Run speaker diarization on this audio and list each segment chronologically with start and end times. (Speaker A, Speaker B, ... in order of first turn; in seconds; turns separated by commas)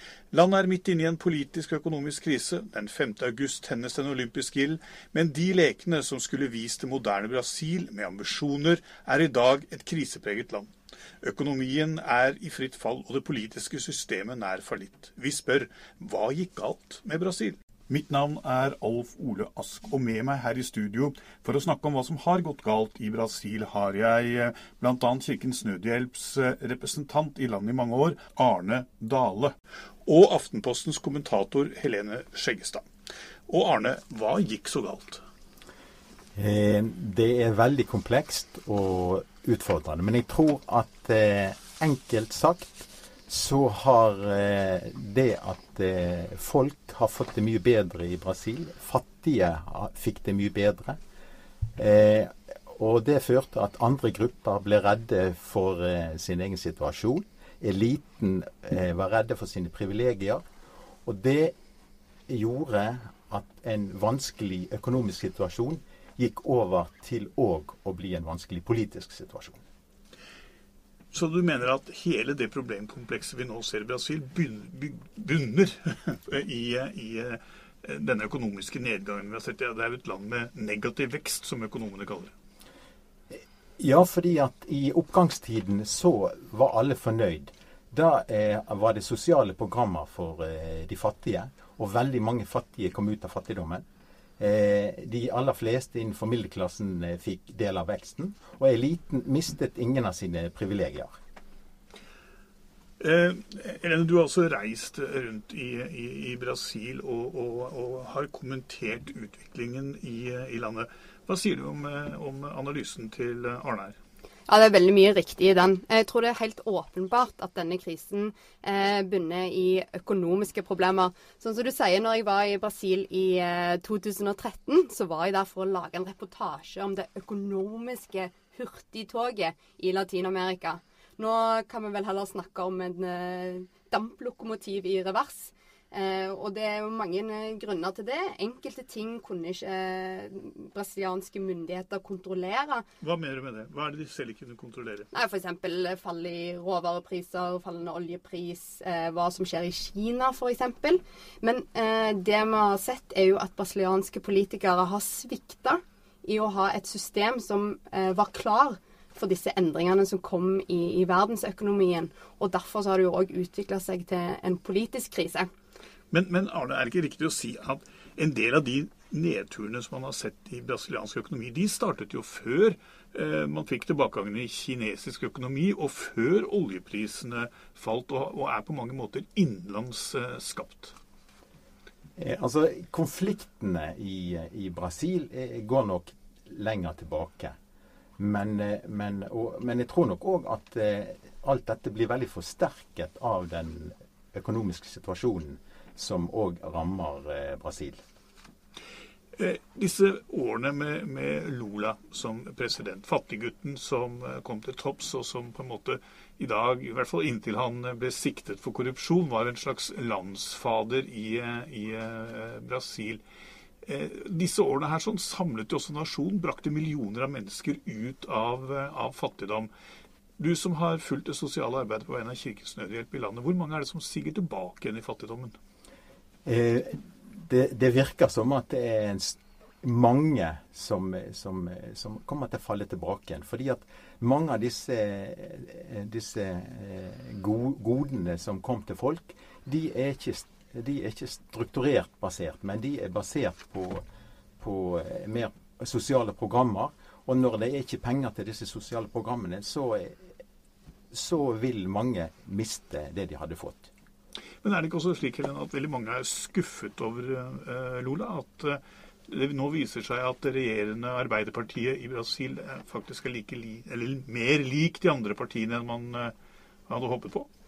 Speaker A: 0.3-10.7, Speaker A: 11.2-29.5, Speaker A: 30.1-32.9, Speaker A: 33.5-35.2, Speaker B: 36.4-51.0, Speaker B: 51.8-60.4, Speaker B: 61.0-61.5, Speaker B: 62.3-69.6, Speaker A: 71.1-82.3, Speaker B: 83.3-93.8, Speaker B: 94.4-101.2, Speaker A: 103.0-114.0, Speaker C: 114.5-142.8, Speaker A: 143.0-145.1, Speaker C: 145.1-165.5, Speaker A: 166.1-180.9, Speaker B: 182.2-187.6, Speaker B: 188.2-198.0, Speaker A: 199.4-213.2, Speaker A: 213.8-219.7, Speaker A: 220.4-225.6, Speaker B: 226.4-244.0, Speaker B: 244.6-250.3, Speaker B: 251.1-253.9, Speaker A: 254.6-266.3, Speaker A: 266.9-267.5